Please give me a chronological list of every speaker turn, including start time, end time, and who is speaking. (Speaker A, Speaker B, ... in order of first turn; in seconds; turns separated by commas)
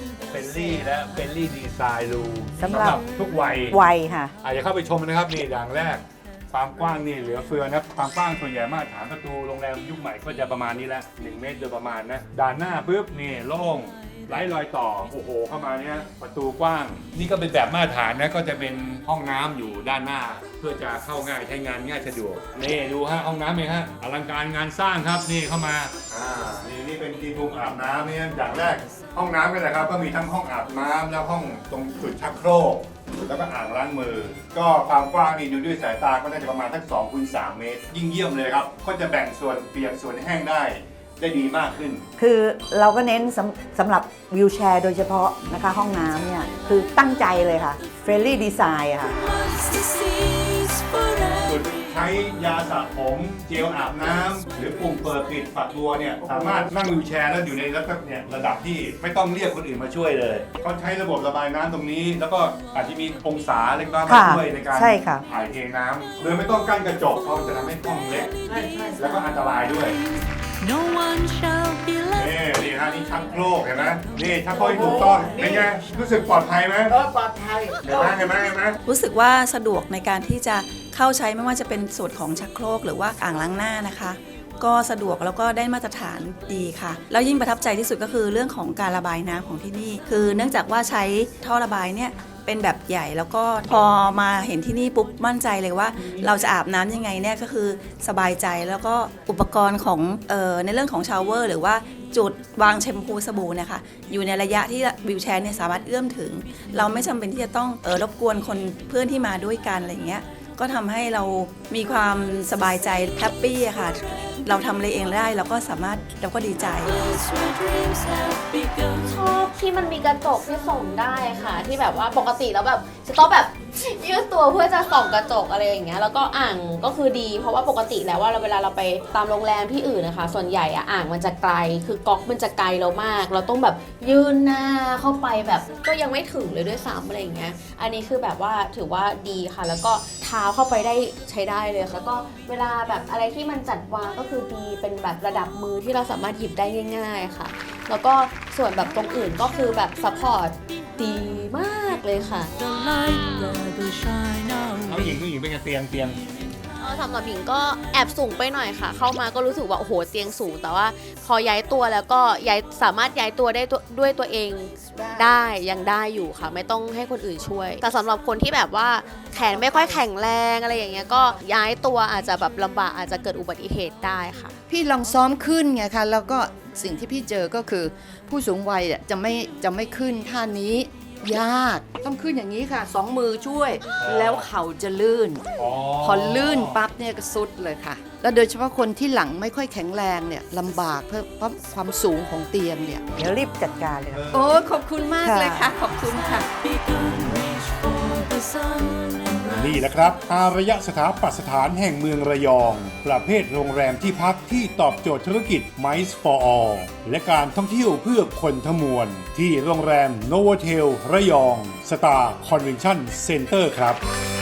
Speaker A: 0.3-3.8, Speaker B: 2.6-3.0, Speaker B: 3.7-4.3, Speaker A: 4.4-42.0, Speaker B: 42.2-49.1, Speaker C: 49.0-52.0, Speaker A: 51.4-68.4, Speaker B: 64.0-65.2, Speaker C: 68.5-72.4, Speaker A: 69.0-70.0, Speaker A: 72.1-77.0, Speaker C: 74.2-75.6, Speaker A: 77.8-78.8, Speaker D: 78.8-117.0, Speaker C: 116.8-119.2, Speaker E: 119.0-152.5, Speaker C: 152.6-155.2, Speaker A: 154.8-156.2, Speaker C: 156.0-156.6, Speaker E: 156.8-174.5, Speaker F: 164.8-165.5, Speaker F: 169.3-170.1, Speaker F: 174.7-193.1, Speaker A: 184.0-184.5, Speaker A: 185.6-186.8, Speaker B: 193.2-194.3, Speaker A: 194.1-194.6, Speaker F: 194.3-196.5, Speaker B: 195.2-195.7, Speaker C: 195.7-199.8, Speaker A: 199.5-214.0